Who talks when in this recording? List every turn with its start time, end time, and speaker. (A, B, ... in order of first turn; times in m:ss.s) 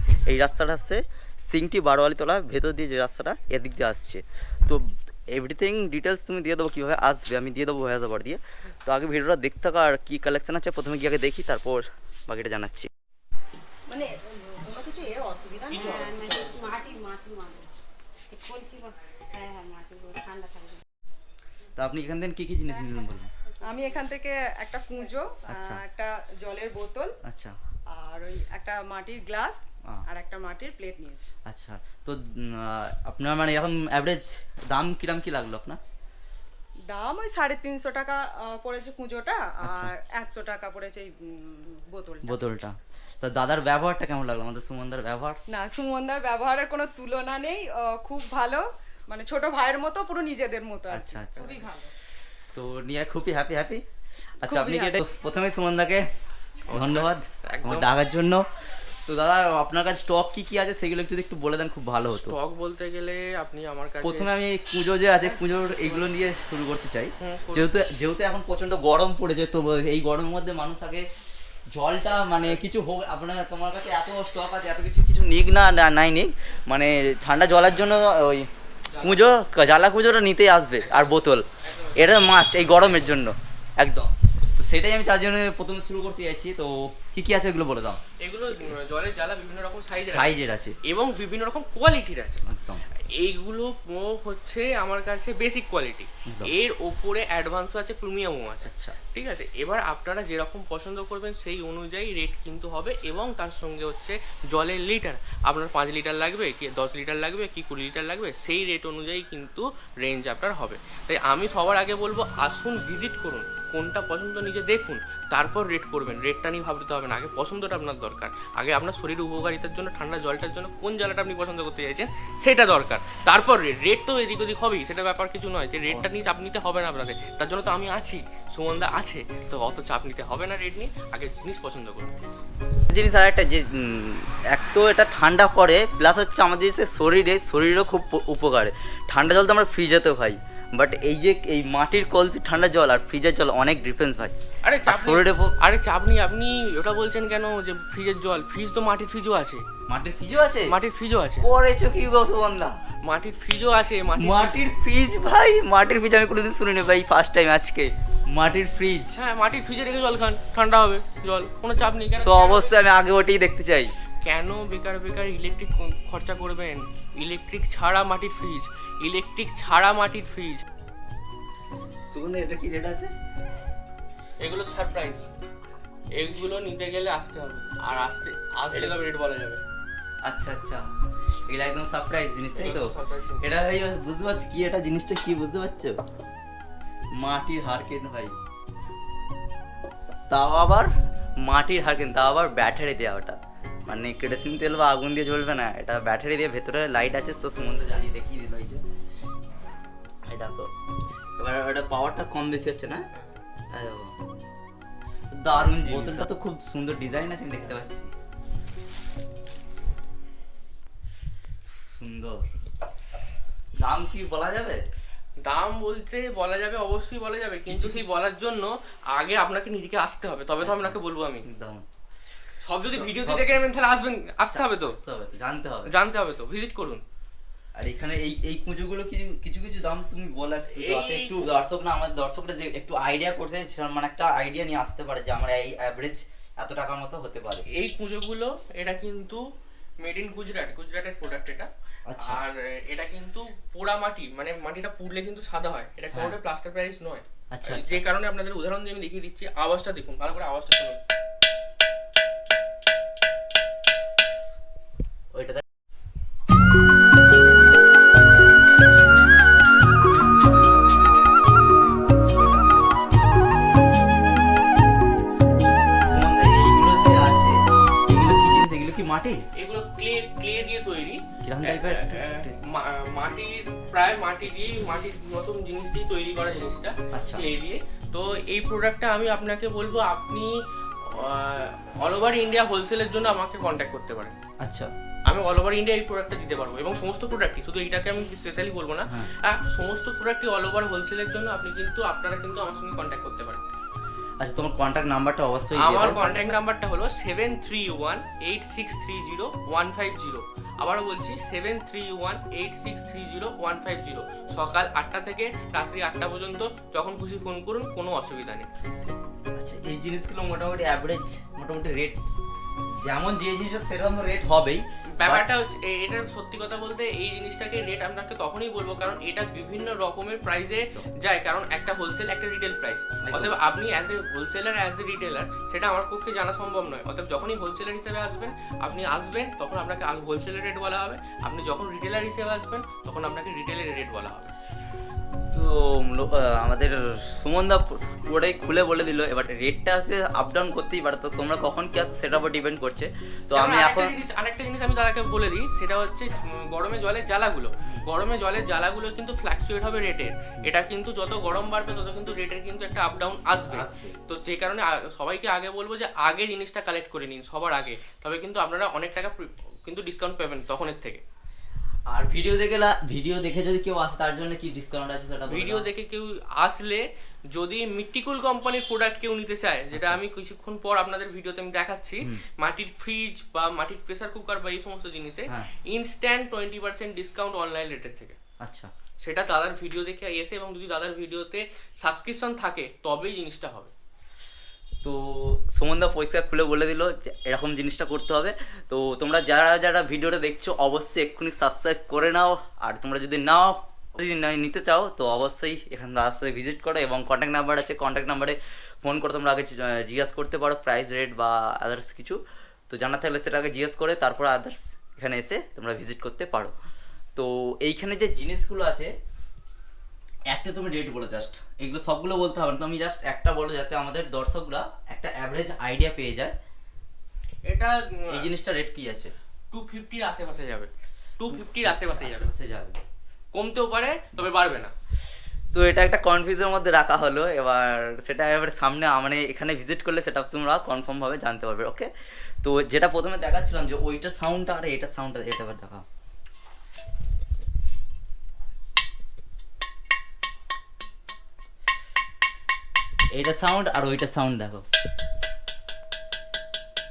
0:00.2-0:12.9 A
0:14.6-0:17.7 B
0:14.6-0:16.9 C
0:15.7-0:16.8 D
0:18.3-0:20.8 B
0:21.8-0:23.3 A
0:23.7-0:27.2 C
0:25.5-0:25.8 A
0:27.2-0:27.6 A
0:27.9-0:31.3 C
0:31.5-0:35.8 A
0:36.9-0:42.5 C
0:39.6-0:39.9 A
0:42.2-0:45.4 A
0:45.5-0:51.9 C
0:50.9-0:51.5 A
0:52.5-0:53.8 A
0:54.4-0:56.0 A
0:54.4-0:55.0 C
0:56.7-0:57.9 D
0:56.7-0:58.5 A
0:59.0-1:02.4 A
1:02.1-1:04.3 D
1:04.0-1:11.1 A
1:05.2-1:06.1 D
1:07.2-1:07.7 D
1:11.7-1:18.5 A
1:18.9-1:19.3 D
1:19.0-1:28.0 A
1:20.8-1:22.2 D
1:28.2-1:32.4 D
1:30.0-1:30.8 A
1:32.5-1:32.8 A
1:33.2-2:12.2 D
1:36.3-1:36.5 A
1:38.6-1:39.0 A
2:05.9-2:06.1 A
2:12.9-2:24.4 A
2:24.6-2:29.7 D
2:24.9-2:25.6 A
2:29.9-2:30.8 A
2:30.6-2:31.5 D
2:31.4-2:32.8 A
2:33.0-2:34.6 D
2:34.2-2:39.2 A
2:39.2-2:42.8 D
2:42.2-2:43.9 A
2:44.2-2:50.6 D
2:52.1-2:53.1 A
2:54.4-2:55.3 D
2:56.1-2:59.6 D
3:00.2-3:00.8 A
3:01.5-3:06.0 A
3:02.6-3:03.5 D
3:07.2-3:08.4 A
3:10.3-3:10.9 A
3:11.4-3:13.4 A
3:13.9-3:18.8 A
3:20.3-3:20.7 A
3:21.4-3:23.1 A
3:23.7-3:24.2 A
3:25.3-3:28.1 A
3:25.9-3:26.2 D
3:31.6-3:32.4 A
3:33.8-3:34.8 A
3:35.4-3:41.5 D
3:37.7-3:38.0 A
3:40.6-3:41.8 A
3:42.6-3:45.0 D
3:43.0-3:43.6 A
3:44.5-3:45.9 A
3:45.9-3:47.0 D
3:47.8-3:57.7 A
3:50.8-3:51.5 D
3:57.7-3:59.4 D
4:00.0-4:11.0 D
4:02.1-4:02.4 A
4:07.5-4:08.0 A
4:15.3-4:15.6 A
4:26.0-4:29.4 A
4:29.6-4:40.5 D
4:31.4-4:32.5 A
4:37.1-4:37.5 A
4:41.0-4:44.4 D
4:44.6-4:44.9 A
4:45.3-4:53.7 D
4:54.4-4:56.5 A
4:55.8-5:08.7 D
5:09.6-5:12.2 A
5:13.0-5:15.5 A
5:15.2-5:34.5 D
5:23.2-5:23.6 A
5:35.5-5:44.2 A
5:43.5-6:01.2 D
5:53.7-5:54.1 A
6:02.1-6:05.9 A
6:05.5-6:18.4 D
6:09.9-6:10.2 A
6:18.6-6:18.9 A
6:19.2-6:23.9 D
6:25.0-6:46.7 A
6:47.4-6:49.1 A
6:50.5-6:56.5 A
6:57.7-6:58.5 D
6:58.3-6:59.3 A
6:59.7-7:02.5 D
7:01.5-7:03.0 A
7:03.5-7:04.9 D
7:05.7-7:12.1 A
7:12.6-7:16.0 A
7:23.3-7:24.8 A